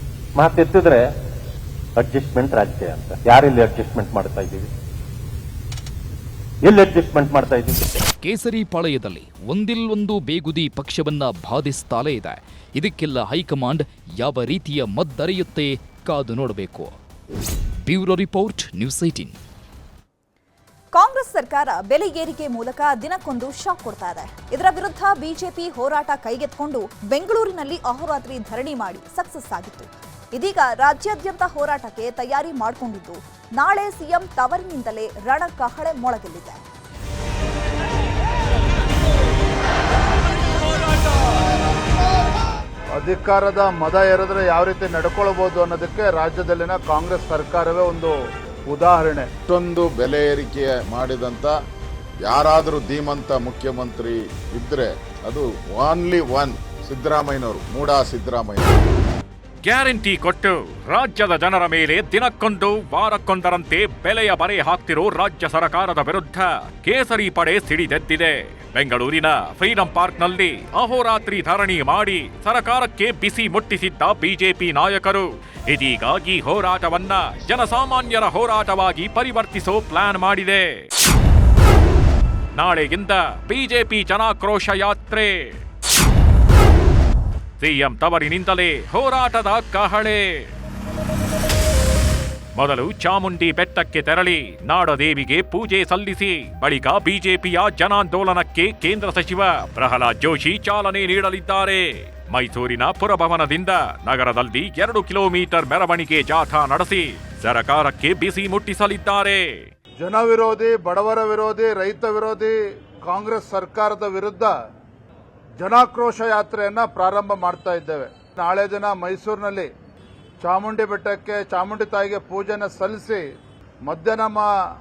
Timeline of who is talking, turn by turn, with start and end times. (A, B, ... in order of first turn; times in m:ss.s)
0:00.3-0:01.1 A
0:02.0-0:04.7 A
0:06.6-0:07.8 A
0:08.2-0:16.9 B
0:17.8-0:19.4 B
0:20.9-0:36.6 C
0:43.0-0:48.1 D
0:48.7-0:49.3 D
0:49.5-0:51.6 E
0:52.2-0:58.7 E
0:59.6-1:20.9 F
1:22.6-1:25.6 F
1:27.6-1:30.5 F
1:32.6-1:49.7 F
1:50.0-1:52.5 D
1:53.1-1:54.5 D
1:55.6-1:59.7 D
2:00.4-2:03.2 D
2:03.9-2:04.4 D